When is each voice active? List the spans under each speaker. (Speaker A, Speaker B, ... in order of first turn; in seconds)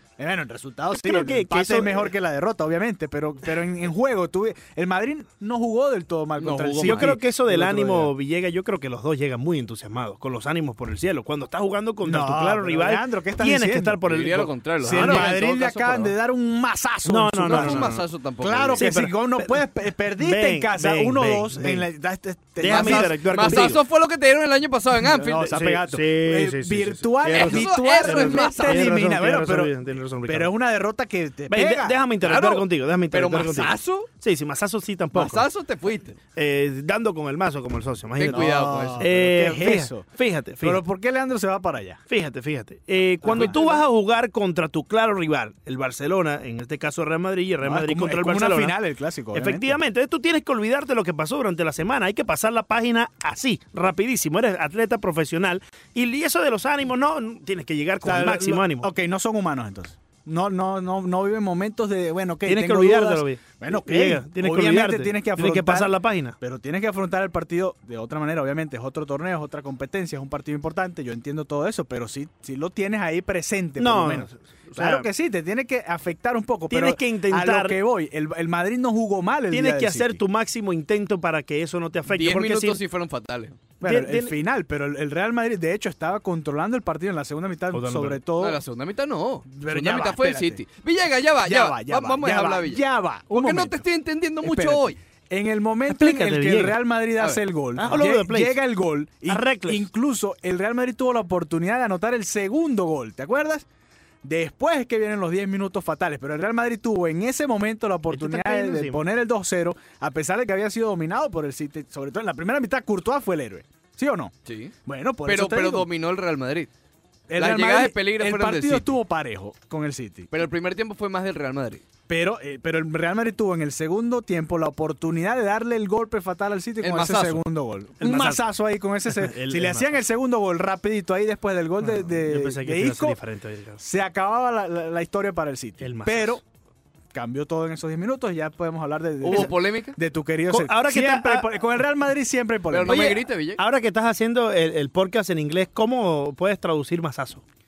Speaker A: 0.2-8.1, 12.1-14.0, 14.8-23.8, 25.0-32.0, 38.2-40.1, 40.6-42.0, 43.2-43.8, 47.6-49.8, 58.0-80.2, 83.8-88.6, 89.5-90.6, 91.4-93.8, 94.4-103.7, 104.2-114.3, 114.8-115.9, 117.3-120.3, 122.1-133.2, 133.8-136.4, 137.1-143.2
Speaker B: 0.9-2.1, 6.8-15.3, 17.1-18.0, 18.8-19.6, 20.2-21.9, 22.6-23.8, 25.4-30.5, 31.5-35.5, 36.4-40.8, 42.1-48.8, 49.3-58.9, 62.5-66.4, 73.8-75.1, 76.7-77.8, 79.5-82.8, 83.8-84.3, 87.7-88.2, 95.9-96.8, 97.8-98.6, 99.3-99.9, 108.1-109.0, 128.0-128.4, 129.1-129.9, 131.8-133.8, 135.8-136.4, 140.5-141.5, 142.9-147.4
Speaker C: 6.4-7.2, 14.1-16.1, 17.4-18.9, 22.7-25.5, 27.2-28.9, 32.2-34.1, 35.1-36.2, 38.2-39.1, 43.4-43.8, 82.1-83.6, 88.4-95.0, 114.5-114.7, 115.2-116.7, 117.4-119.0, 120.3-121.8, 126.8-127.4, 139.2-140.0, 142.7-143.6